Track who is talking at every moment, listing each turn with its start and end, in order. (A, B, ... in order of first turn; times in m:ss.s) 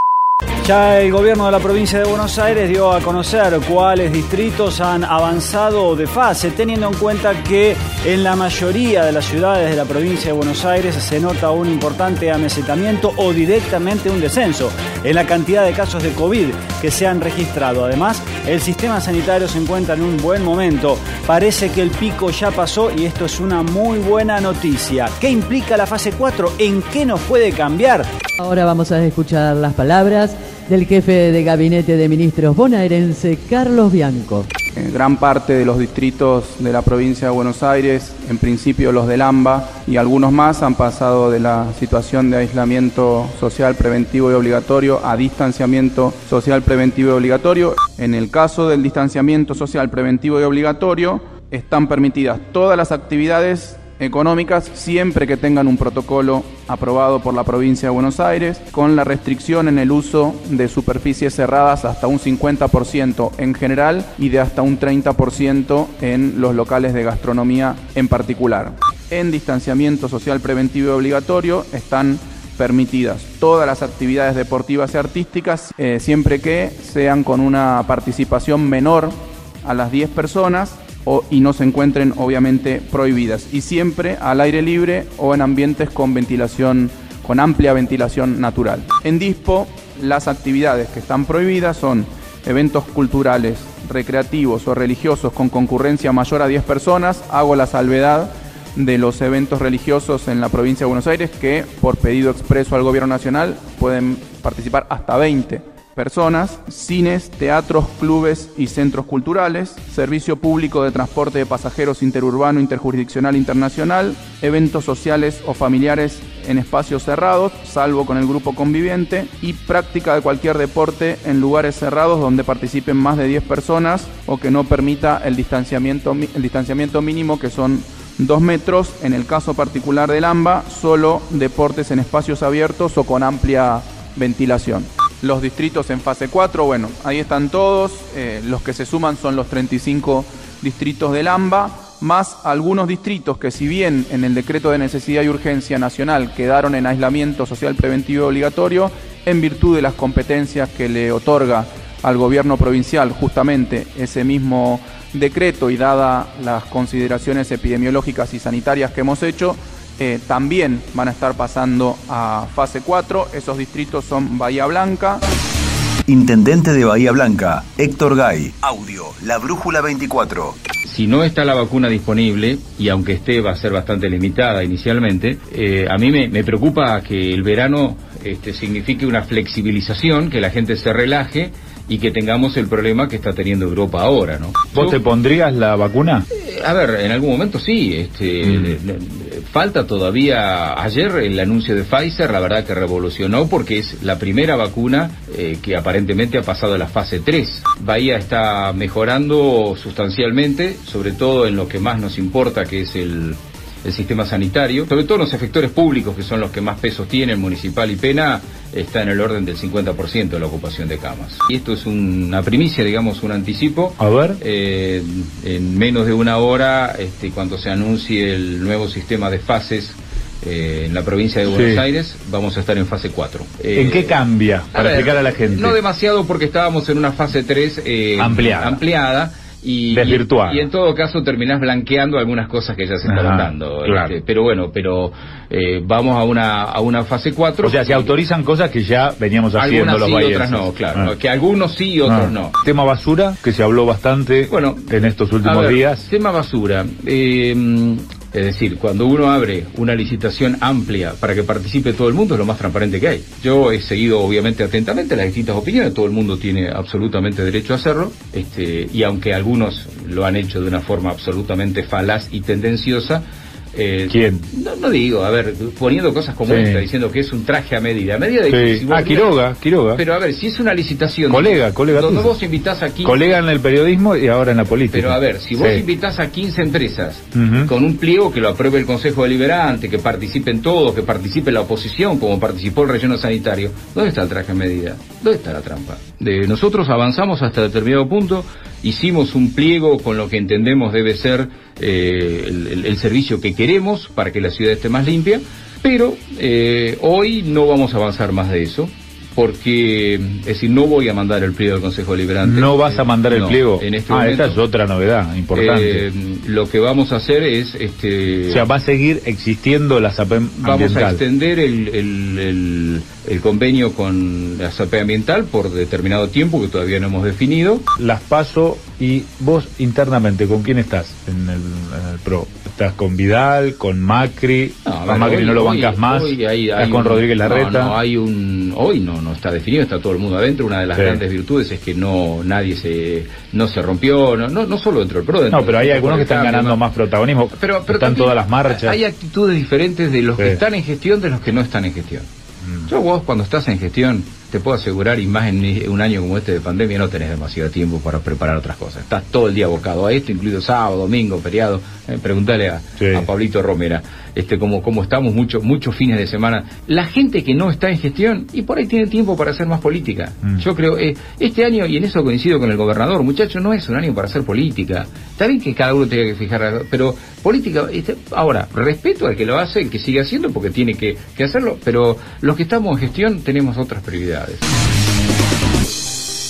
0:00.6-0:28.1 A
0:28.4-0:34.5 B
0:34.8-2:45.2 C
2:46.1-2:50.5 D
2:50.8-3:05.0 E
3:04.7-3:06.2 F
3:06.3-3:44.2 E
3:08.4-3:08.8 F
3:34.0-3:34.4 F
3:41.5-3:41.8 F
3:43.8-3:45.8 F
3:44.7-3:58.1 E
3:48.2-3:48.8 F
3:49.9-3:50.7 F
3:53.1-3:54.1 F
3:57.6-4:01.1 F
3:59.6-4:02.5 E
4:02.0-4:06.1 F
4:04.5-4:04.9 E
4:05.4-4:29.4 E
4:24.1-4:24.4 F
4:26.4-4:26.9 F
4:28.5-4:30.0 F
4:30.0-4:33.2 E
4:31.3-4:32.4 F
4:33.0-4:35.8 F
4:34.9-5:04.6 E
4:37.4-4:37.7 F
5:02.4-5:06.0 F
5:05.5-5:08.7 E
5:08.5-5:11.2 F
5:10.6-5:17.9 E
5:18.0-5:28.0 F
5:24.8-5:36.8 E
5:30.9-5:31.2 F
5:35.5-5:39.0 F
5:37.5-5:42.3 E
5:40.4-5:40.6 F
5:42.9-6:14.7 E
5:53.0-5:53.3 F